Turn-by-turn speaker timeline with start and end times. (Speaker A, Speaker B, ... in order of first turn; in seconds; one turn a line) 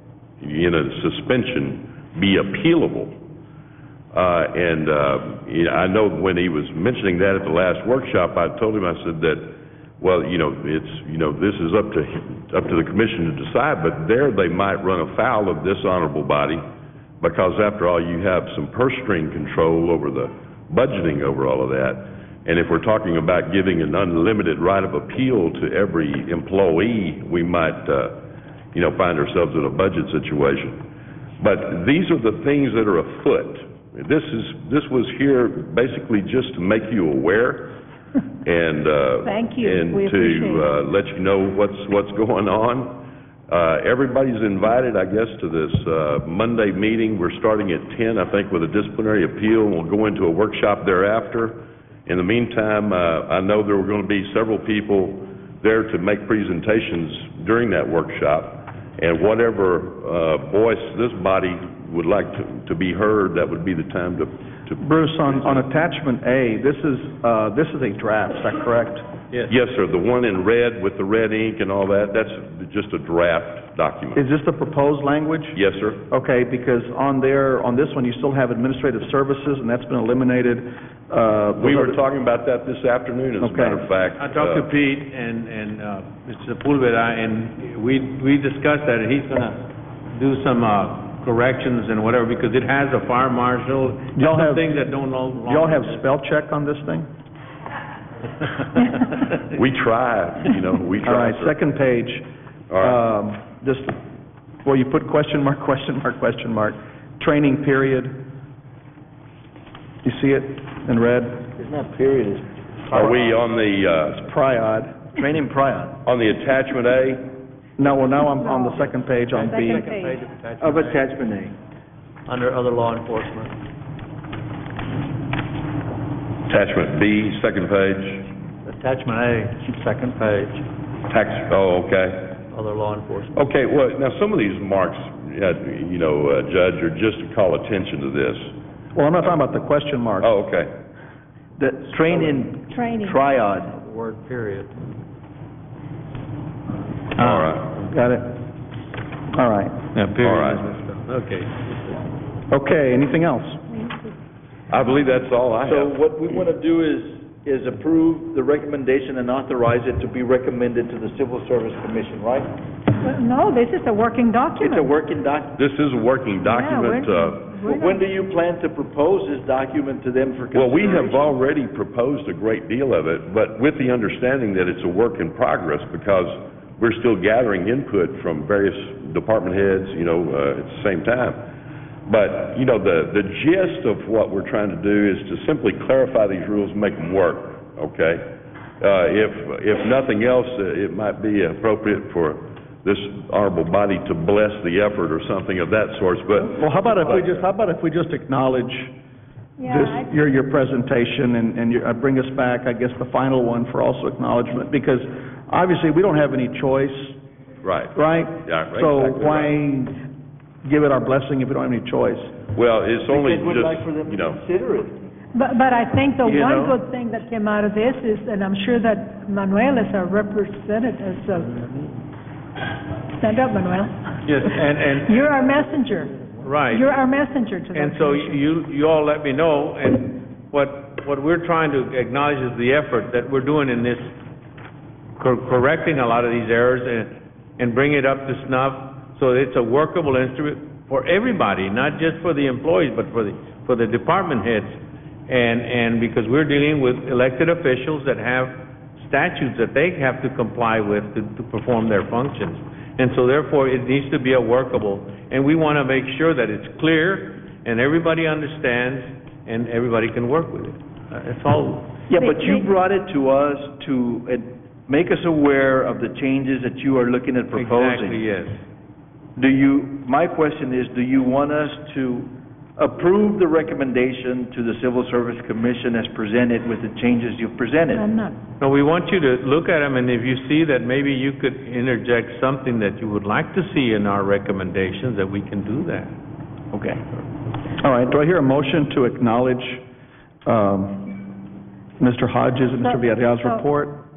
Speaker A: 0.4-3.1
Speaker A: 4.1-16.6
Speaker A: 17.2-28.2
Speaker A: 28.7-30.8
Speaker A: 31.4-37.7
Speaker A: 38.4-65.7
Speaker B: 39.2-40.7
Speaker C: 64.8-69.1
Speaker A: 69.5-74.2
Speaker C: 74.2-82.0
Speaker A: 75.5-76.0
Speaker A: 81.6-84.7
Speaker C: 83.4-83.9
Speaker D: 84.2-96.0
Speaker C: 94.2-94.7
Speaker C: 95.4-97.1
Speaker A: 99.5-101.6
Speaker C: 101.0-102.3
Speaker A: 102.7-103.0
Speaker C: 102.8-104.0
Speaker C: 104.6-108.2
Speaker C: 110.0-111.5
Speaker E: 111.6-112.4
Speaker C: 112.9-113.3
Speaker A: 112.9-114.3
Speaker C: 114.1-115.1
Speaker E: 115.2-116.0
Speaker A: 116.0-117.3
Speaker C: 117.8-119.9
Speaker B: 118.3-120.3
Speaker F: 119.6-121.0
Speaker E: 120.6-121.6
Speaker F: 122.3-123.5
Speaker A: 126.5-128.3
Speaker F: 128.7-130.7
Speaker A: 131.1-132.4
Speaker F: 132.5-133.3
Speaker A: 133.3-138.5
Speaker C: 138.9-140.3
Speaker A: 140.2-140.7
Speaker E: 141.6-143.7
Speaker B: 142.7-143.1
Speaker F: 143.8-144.6
Speaker A: 147.2-147.7
Speaker C: 147.2-148.4
Speaker C: 149.3-149.8
Speaker D: 149.9-152.0
Speaker A: 150.2-150.7
Speaker C: 152.5-153.6
Speaker A: 154.7-156.0
Speaker E: 155.6-162.5
Speaker B: 163.0-164.9
Speaker E: 164.6-165.6
Speaker A: 165.6-167.6
Speaker B: 166.4-168.1
Speaker E: 167.6-171.3
Speaker A: 170.5-181.4
Speaker A: 182.1-197.4
Speaker C: 196.4-198.9
Speaker B: 199.6-200.1
Speaker C: 199.6-207.2
Speaker A: 207.6-209.6
Speaker C: 207.9-210.0
Speaker C: 210.7-212.3
Speaker A: 212.5-214.4
Speaker E: 213.1-215.1
Speaker B: 215.3-221.7
Speaker E: 216.2-216.8
Speaker B: 223.2-224.5
Speaker D: 224.3-225.2
Speaker B: 225.1-228.4
Speaker D: 226.4-227.0
Speaker D: 227.7-234.1
Speaker D: 235.2-261.9
Speaker E: 262.1-268.2
Speaker B: 262.2-262.6
Speaker D: 267.5-268.6
Speaker E: 269.4-278.1
Speaker B: 277.9-278.4
Speaker D: 278.6-286.1
Speaker E: 286.7-287.0
Speaker C: 287.8-289.8
Speaker C: 290.4-291.2
Speaker C: 292.0-294.0
Speaker B: 292.8-293.6